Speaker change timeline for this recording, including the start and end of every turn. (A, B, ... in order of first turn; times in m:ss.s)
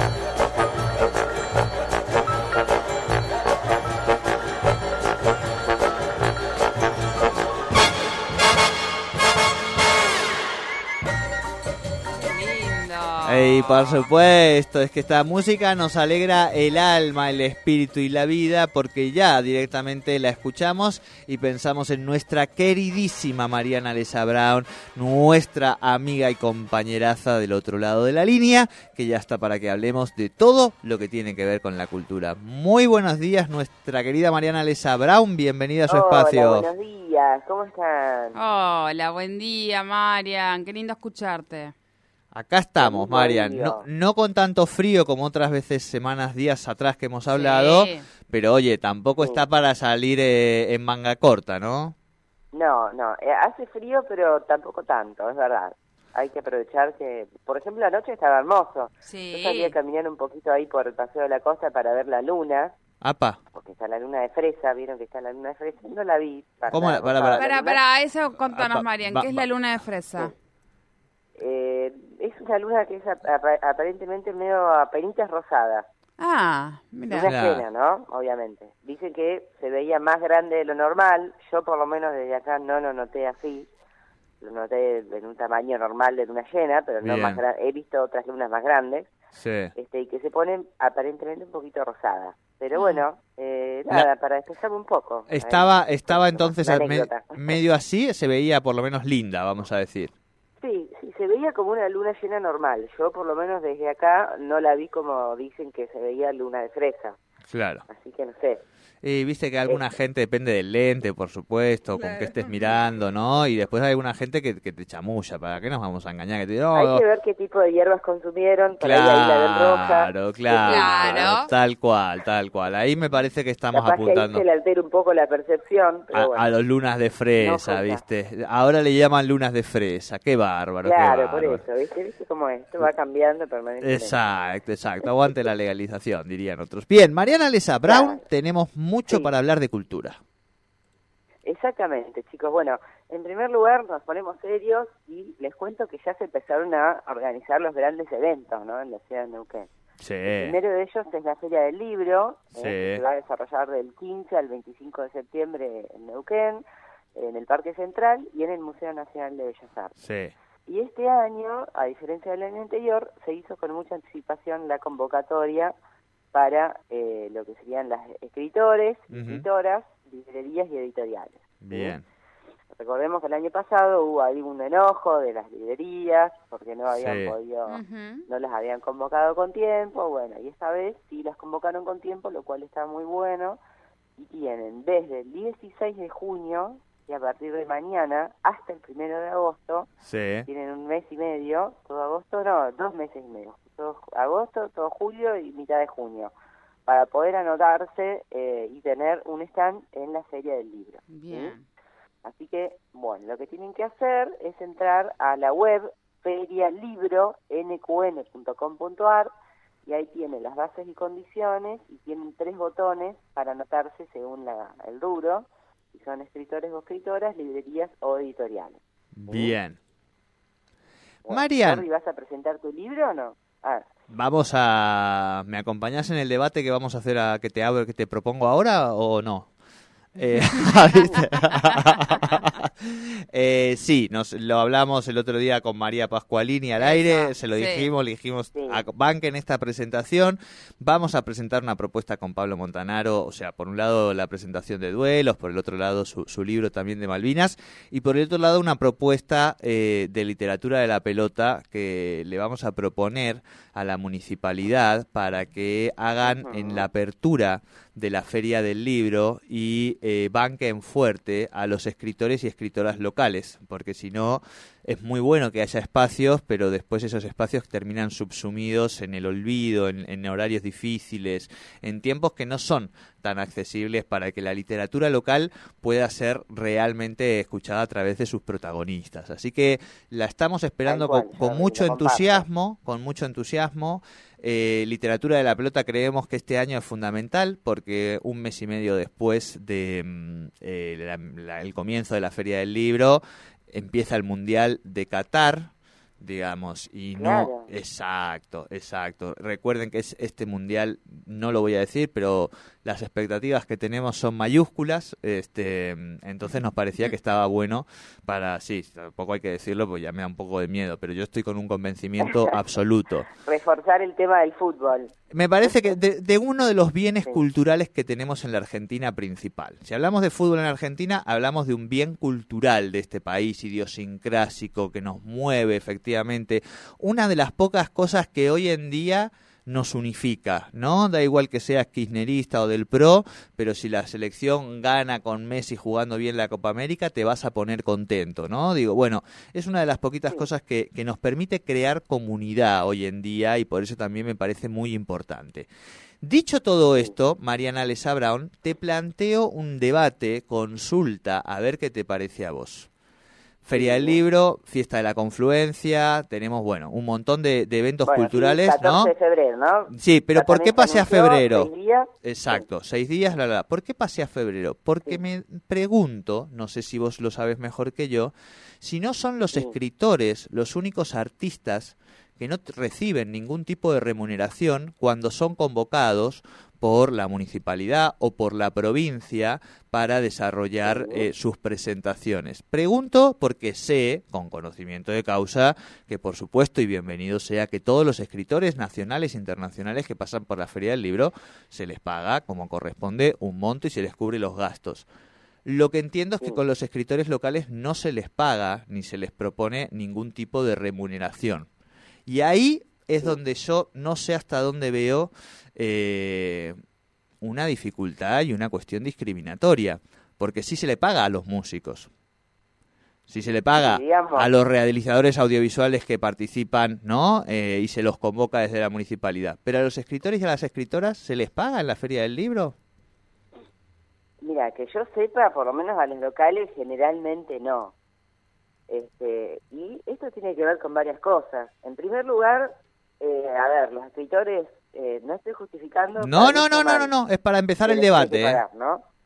0:12.1-0:14.1 A
0:13.2-0:36.7 B
0:35.9-0:38.4 C
0:38.3-0:41.7 A
0:42.3-0:51.9 B
0:42.8-0:43.8 C
0:47.3-0:48.0 A
0:49.2-0:49.4 C
0:52.5-1:02.7 C
0:59.0-0:59.7 A
1:03.0-1:03.4 B
1:03.5-1:07.8 C
1:06.7-1:07.5 B
1:07.4-1:10.3 A
1:08.4-1:09.5 B
1:11.4-1:15.8 C
1:16.2-1:17.3 A
1:17.1-1:23.7 C
1:17.1-1:17.6 B
1:24.4-1:29.1 C
1:27.0-1:27.4 B
1:29.4-1:29.7 B
1:29.7-1:37.6 C
1:32.7-1:33.0 A
1:35.3-1:40.1 B
1:40.6-1:47.2 C
1:47.5-1:47.8 B
1:47.9-1:48.6 C
1:49.0-1:57.0 B
1:52.0-1:52.5 A
1:56.7-2:01.3 C
1:58.7-2:04.4 B
2:00.6-2:01.4 A
2:03.7-2:06.4 C
2:06.1-2:11.6 B
2:07.4-2:08.0 C
2:10.8-2:14.2 C
2:13.8-2:20.2 B
2:17.8-2:18.2 C
2:21.4-2:29.7 C
2:30.0-2:30.6 B
2:30.2-2:36.6 C
2:32.5-2:33.0 B
2:37.1-2:39.9 C
2:40.0-2:40.3 B
2:40.6-2:45.7 C
2:46.3-2:51.9 C
2:49.1-2:49.4 B
2:51.6-2:52.0 B
2:52.7-3:03.6 C
2:56.9-2:57.3 B
2:57.7-2:58.2 A
3:04.2-3:09.9 C
3:10.0-3:10.5 B
3:10.5-3:16.3 C
3:16.8-3:21.5 C
3:21.1-3:21.6 A
3:22.2-3:29.3 C
3:29.8-3:39.5 C
3:39.2-3:39.8 B
3:41.2-3:43.8 C
3:41.3-3:41.8 B
3:44.1-3:49.5 B
3:50.1-4:55.7 B
3:56.8-3:57.9 A
3:58.5-3:58.8 C
4:16.2-4:16.9 C
4:40.8-4:42.4 C
4:56.2-5:13.3 B
4:57.2-4:57.7 C
5:12.2-5:12.6 C
5:13.4-5:15.9 C
5:15.3-5:45.7 B
5:46.2-5:52.9 B
5:53.6-5:59.1 B
5:53.7-5:54.2 C
5:58.0-6:02.6 C
5:59.9-6:01.7 B
6:02.2-6:35.0 B
6:20.8-6:21.3 C
6:35.6-6:41.7 B
6:42.3-6:46.7 B
6:47.4-6:52.1 B
6:53.3-7:02.7 B
6:53.7-6:54.5 C
7:04.4-7:07.9 C
7:08.9-7:17.1 C
7:16.2-7:18.6 B
7:17.8-7:19.0 C